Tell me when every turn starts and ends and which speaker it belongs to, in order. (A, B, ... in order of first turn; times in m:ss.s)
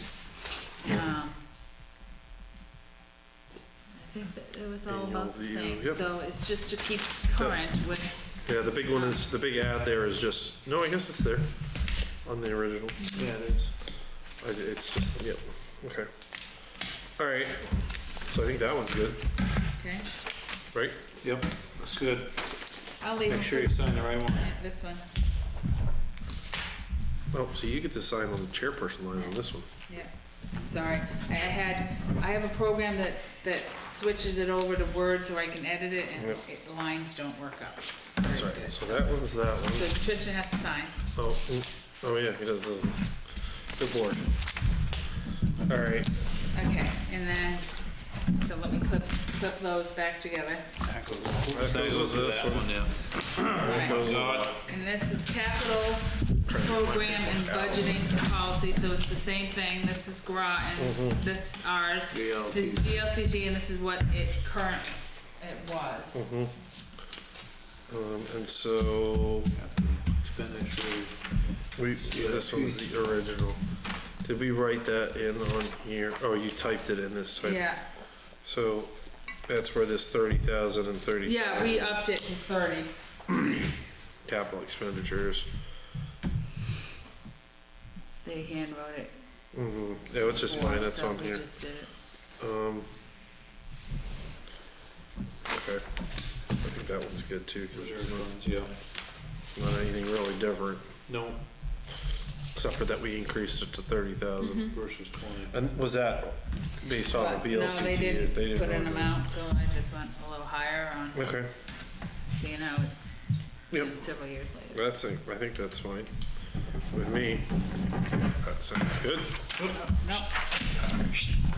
0:00.8-0:01.4 A
0:03.9-0:08.2 A
0:04.9-0:06.0 B
0:08.4-0:11.6 B
0:08.9-0:09.2 A
0:12.2-0:13.0 B
0:13.1-0:13.7 C
0:14.4-0:16.1 B
0:17.2-0:19.2 B
0:19.8-0:20.1 A
0:20.7-0:21.0 B
0:21.2-0:22.4 C
0:23.0-0:25.0 A
0:23.2-0:24.5 C
0:27.3-0:29.7 B
0:29.9-0:30.1 A
0:30.6-0:39.1 A
0:38.3-0:39.9 B
0:39.7-0:41.0 A
0:41.1-0:44.3 B
0:45.7-0:46.1 B
0:46.5-0:47.7 A
0:48.3-0:50.7 A
0:50.8-0:54.6 C
0:51.5-0:52.8 B
0:53.5-0:54.6 B
0:53.6-1:06.2 A
0:56.4-0:58.1 B
1:00.8-1:01.2 B
1:02.1-1:02.9 C
1:06.1-1:06.5 B
1:07.9-1:09.5 B
1:09.5-1:11.2 C
1:11.8-1:13.6 B
1:12.0-1:12.8 C
1:14.2-1:17.7 B
1:17.4-1:17.8 A
1:18.4-1:18.9 B
1:19.5-1:22.0 B
1:21.2-1:22.9 A
1:24.2-1:25.5 B
1:28.2-1:29.1 A
1:29.5-1:31.4 B
1:30.3-1:31.9 A
1:32.4-1:32.9 B
1:35.5-1:35.8 B
1:36.5-1:38.3 B
1:37.7-1:38.7 C
1:39.5-1:40.9 B
1:41.1-1:41.4 C
1:42.5-1:49.2 B
1:44.4-1:44.8 A
1:44.7-1:45.5 C
1:47.1-1:51.4 A
1:51.1-1:51.5 B
1:52.3-1:54.8 A
1:53.7-1:54.0 B
1:54.7-1:56.1 B
1:56.9-1:57.6 B
1:58.4-1:59.5 B
1:59.7-2:00.3 A